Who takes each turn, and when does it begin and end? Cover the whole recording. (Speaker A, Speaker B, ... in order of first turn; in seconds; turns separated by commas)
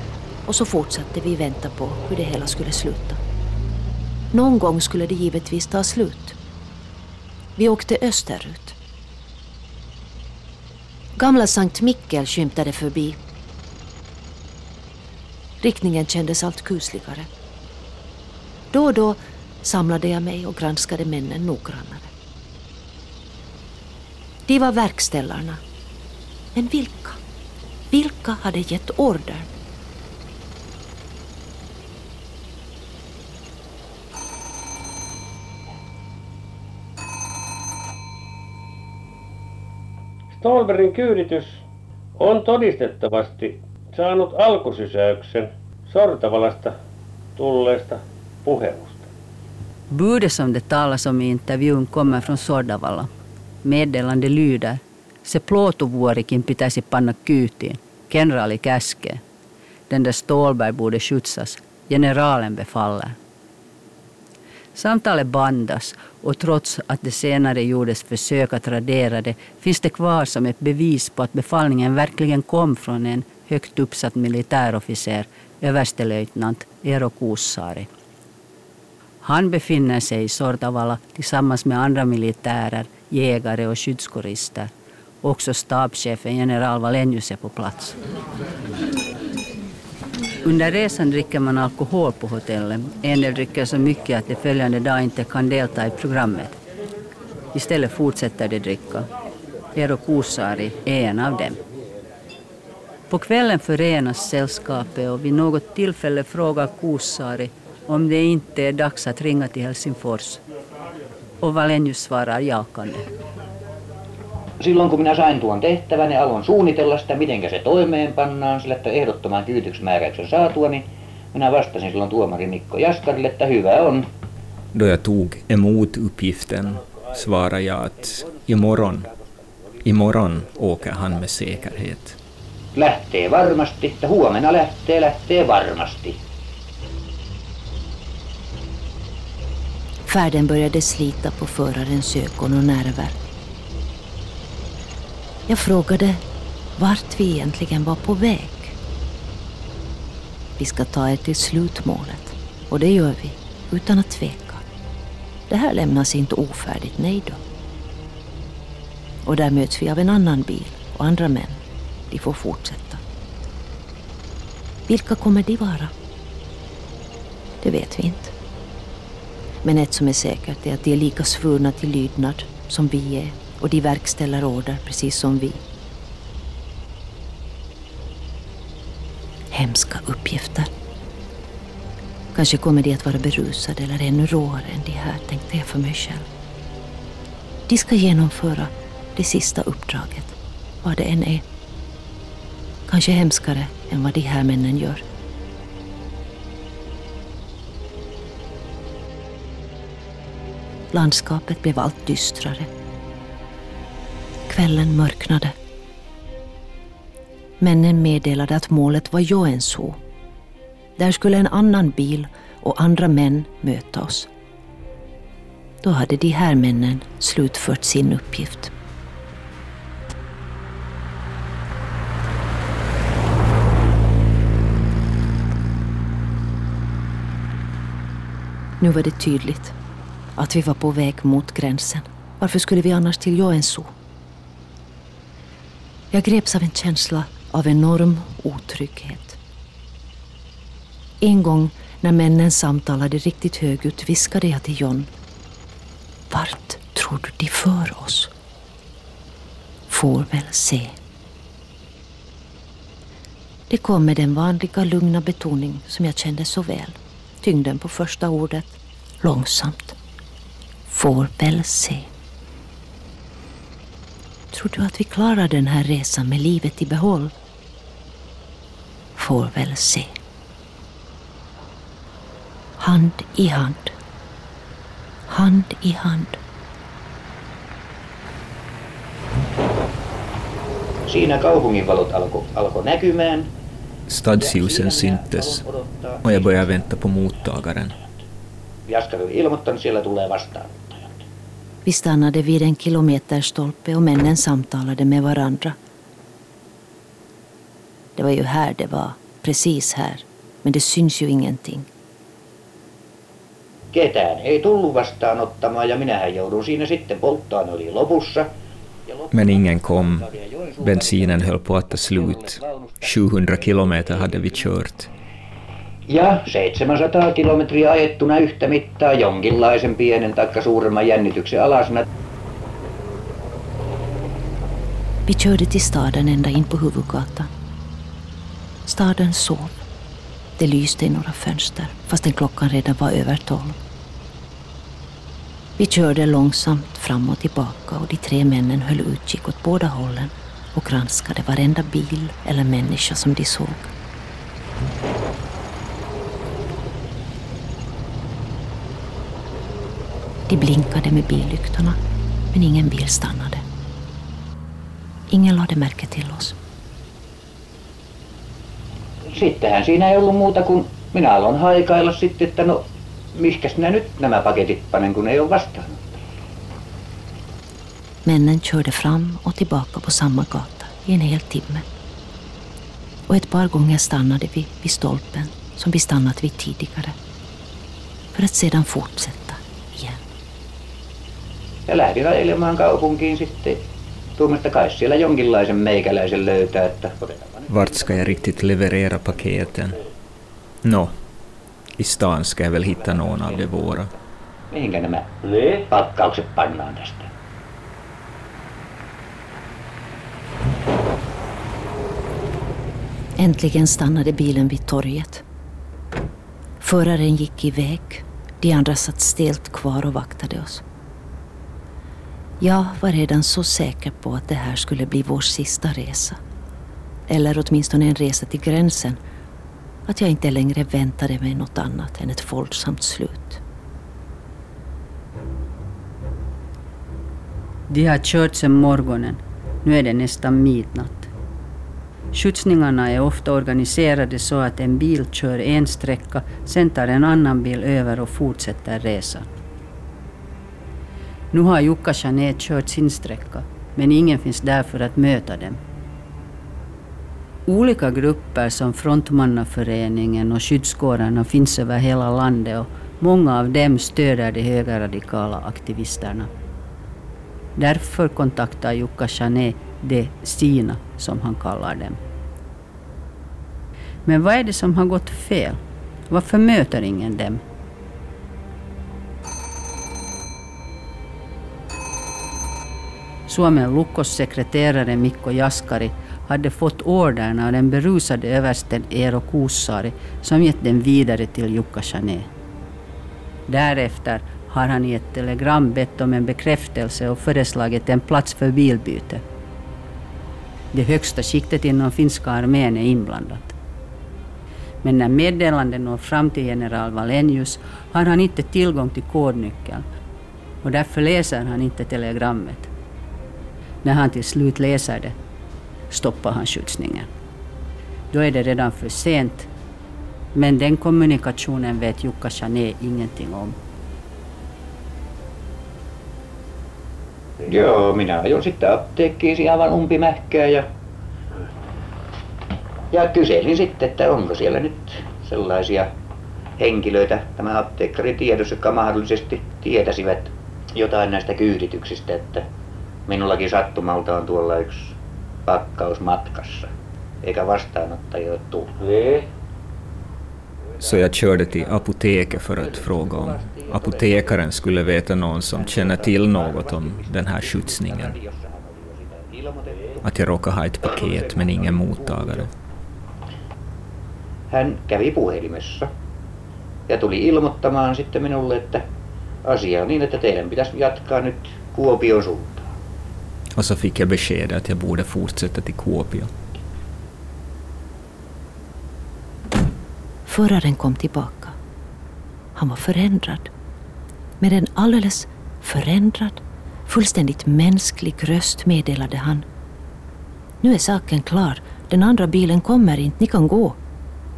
Speaker A: 0.5-3.2, Speaker A: 4.3-6.4, Speaker A: 7.5-8.8, Speaker A: 11.2-13.2, Speaker A: 15.6-17.3, Speaker A: 18.7-22.1, Speaker A: 24.5-25.6, Speaker A: 26.5-27.2, Speaker A: 27.9-29.5, Speaker B: 40.3-41.6, Speaker B: 42.1-46.7, Speaker B: 47.4-49.1, Speaker C: 49.9-53.1, Speaker C: 53.6-59.2, Speaker C: 59.9-63.1, Speaker C: 64.7-77.9, Speaker C: 79.2-84.7, Speaker C: 85.2-88.0, Speaker C: 90.4-96.6, Speaker C: 97.5-99.1, Speaker C: 99.7-101.6, Speaker C: 103.1-110.4, Speaker C: 111.4-113.0, Speaker D: 114.6-124.0, Speaker E: 124.7-129.1, Speaker D: 128.2-131.2, Speaker E: 129.8-132.2, Speaker D: 132.7-136.2, Speaker A: 140.1-143.2, Speaker A: 145.5-146.2, Speaker A: 146.8-148.8, Speaker A: 150.6-154.6, Speaker A: 155.5-157.4, Speaker A: 159.2-163.0, Speaker A: 164.9-165.9, Speaker A: 167.6-168.3, Speaker A: 169.6-175.6, Speaker A: 179.5-180.7, Speaker A: 182.3-186.3, Speaker A: 187.7-191.4, Speaker A: 192.9-195.0, Speaker A: 200.9-202.7, Speaker A: 204.5-205.5, Speaker A: 207.6-210.0, Speaker A: 211.0-214.3, Speaker A: 215.8-218.7, Speaker A: 228.8-229.7, Speaker A: 230.3-233.9, Speaker A: 236.1-239.4, Speaker A: 241.2-245.1, Speaker A: 246.3-248.3, Speaker A: 249.9-250.9, Speaker A: 253.7-260.0, Speaker A: 260.9-262.1, Speaker A: 264.5-267.3, Speaker A: 269.1-270.1, Speaker A: 272.8-273.9, Speaker A: 275.3-276.4, Speaker D: 281.1-283.5, Speaker E: 284.1-285.6, Speaker D: 284.4-286.9, Speaker E: 286.2-287.9, Speaker D: 288.9-291.2, Speaker A: 291.8-295.8, Speaker A: 298.1-301.9, Speaker D: 303.9-308.5, Speaker D: 309.1-314.7, Speaker E: 309.3-315.1, Speaker D: 316.1-322.0, Speaker A: 325.3-327.5, Speaker A: 328.9-329.8, Speaker A: 330.6-333.8, Speaker A: 335.8-343.9, Speaker A: 350.5-352.0, Speaker A: 352.5-353.6, Speaker A: 355.3-356.6, Speaker D: 359.3-366.2, Speaker A: 368.2-371.9, Speaker A: 373.3-377.2, Speaker A: 378.3-380.2, Speaker D: 381.9-383.8, Speaker D: 384.4-388.3, Speaker E: 387.7-390.0, Speaker E: 390.8-391.1, Speaker E: 392.0-394.1, Speaker D: 393.2-393.6, Speaker D: 394.7-395.3, Speaker B: 395.4-395.9, Speaker D: 395.9-397.3, Speaker A: 403.4-405.4, Speaker A: 406.8-410.8, Speaker A: 412.6-416.4, Speaker A: 417.3-419.2, Speaker A: 420.1-423.6, Speaker C: 427.9-431.3, Speaker C: 432.3-439.5, Speaker C: 441.5-445.8, Speaker C: 447.7-456.5, Speaker C: 457.8-462.2, Speaker C: 464.2-467.6, Speaker C: 473.5-482.5, Speaker C: 483.7-489.4, Speaker C: 490.9-493.7, Speaker C: 495.0-500.0, Speaker C: 500.8-502.9, Speaker C: 504.0-505.3, Speaker C: 506.1-507.3, Speaker C: 508.3-509.7, Speaker C: 510.5-513.8, Speaker D: 517.6-520.9, Speaker D: 523.1-526.1, Speaker D: 526.8-532.6, Speaker D: 533.3-535.1, Speaker D: 535.7-536.9, Speaker D: 537.4-538.9, Speaker B: 539.0-539.5, Speaker E: 541.0-548.4, Speaker D: 541.0-541.6, Speaker D: 542.7-545.1, Speaker D: 545.7-550.2, Speaker E: 550.2-552.7, Speaker D: 551.0-552.6, Speaker D: 554.7-556.1, Speaker D: 557.1-559.0, Speaker D: 559.6-562.9, Speaker E: 563.8-566.5, Speaker A: 570.5-571.8, Speaker A: 572.8-573.7, Speaker A: 574.6-579.6, Speaker A: 580.8-584.0